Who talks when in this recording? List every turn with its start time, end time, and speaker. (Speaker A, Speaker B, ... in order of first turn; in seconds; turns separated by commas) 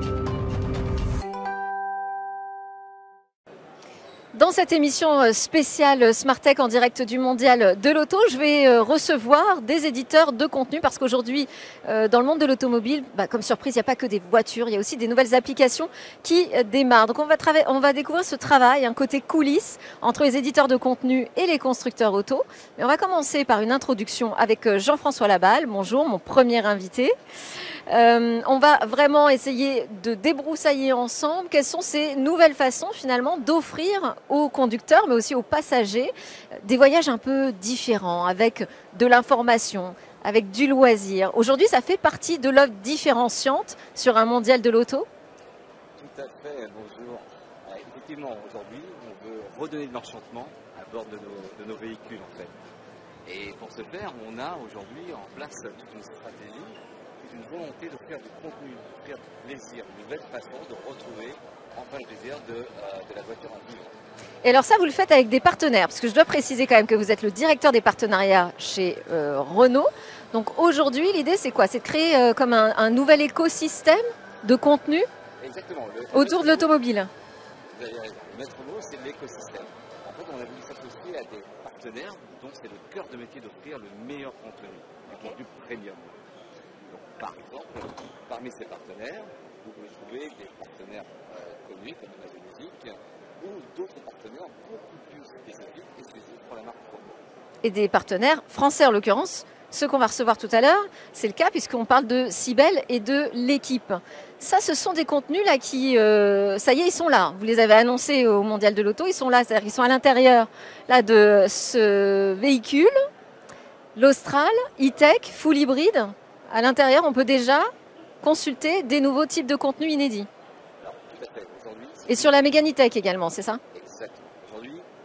Speaker A: 4.3-27.1, Speaker A: 27.9-45.1, Speaker B: 46.0-52.5, Speaker B: 53.2-63.9, Speaker A: 64.4-75.1, Speaker B: 75.4-76.7, Speaker A: 76.1-77.1, Speaker B: 77.7-86.2, Speaker A: 85.1-85.4, Speaker B: 86.8-97.2, Speaker A: 97.6-112.9, Speaker A: 114.0-117.7, Speaker A: 118.2-120.3, Speaker B: 120.8-122.3, Speaker A: 122.1-123.6, Speaker B: 123.7-124.9